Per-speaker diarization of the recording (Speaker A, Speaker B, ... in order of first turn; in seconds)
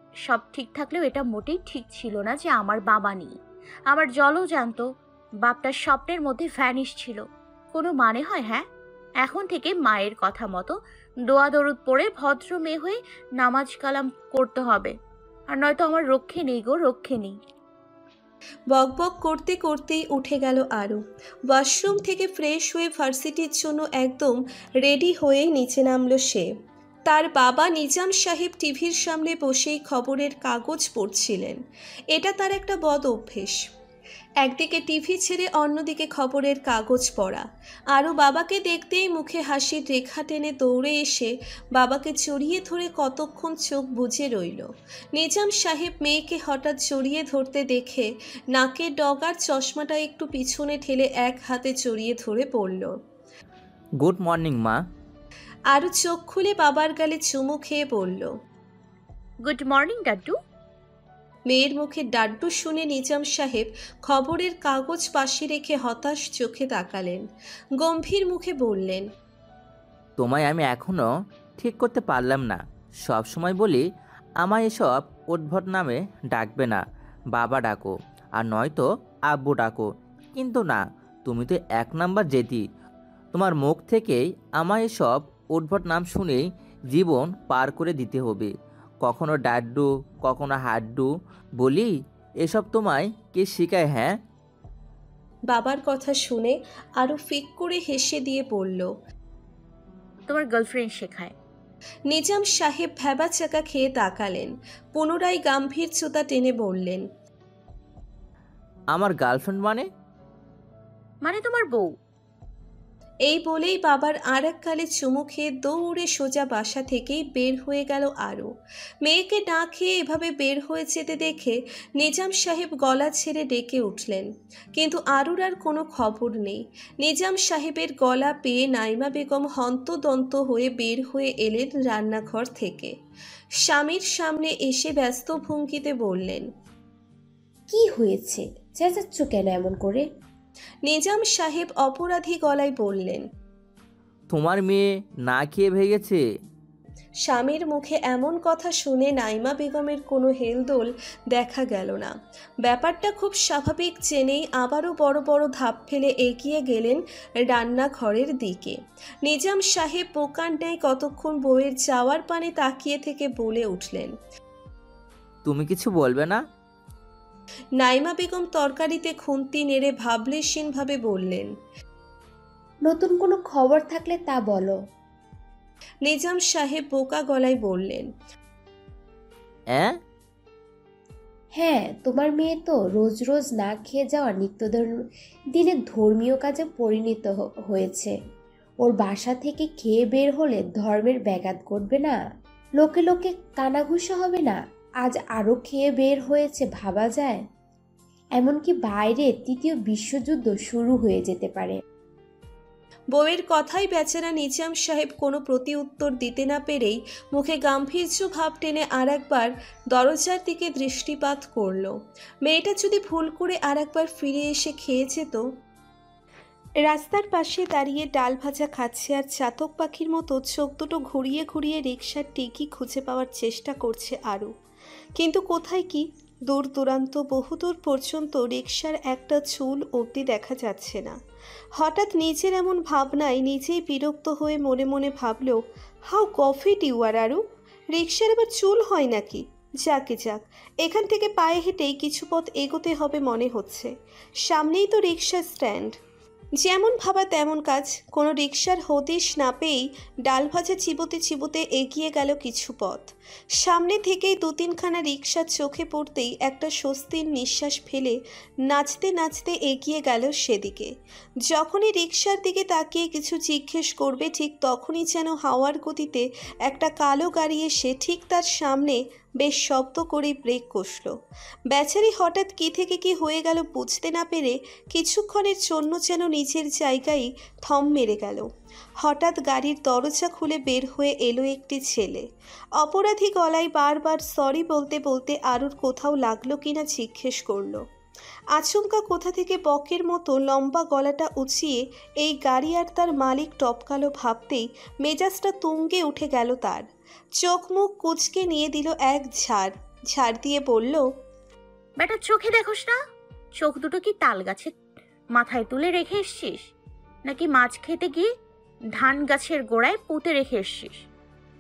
Speaker A: 0.2-3.3, 3.9-4.8, 5.4-8.6, 9.2-10.8, 11.3-14.9, 15.5-17.4, 59.4-60.4, 100.3-101.3, 111.2-111.9, 302.0-302.9, 303.6-304.7, 305.4-306.6, 307.3-308.3, 309.0-311.0
Speaker B: 18.7-26.5, 27.1-31.6, 32.1-33.6, 34.4-53.0, 55.7-58.3, 61.5-67.2, 67.8-69.1, 95.5-98.9, 102.1-107.1, 113.3-118.5, 119.0-132.9, 133.6-136.5, 140.9-143.2, 147.2-164.1, 167.8-171.5, 176.0-178.1, 203.1-211.9, 212.4-215.4, 216.8-224.5, 225.2-231.2, 231.8-235.6, 236.1-237.4, 237.9-243.9, 244.4-245.9, 246.6-260.9, 261.4-271.1, 271.7-278.5, 279.0-282.3, 282.8-287.8, 288.5-296.9, 297.4-301.1
Speaker C: 54.0-54.8, 70.2-71.1, 71.6-73.8, 74.4-82.7, 83.3-94.2, 108.9-109.9, 144.3-146.2, 165.4-166.4
Speaker D: 137.7-140.1, 172.9-174.8, 181.6-184.9, 185.6-188.1, 188.8-192.2, 192.8-197.4, 198.4-201.8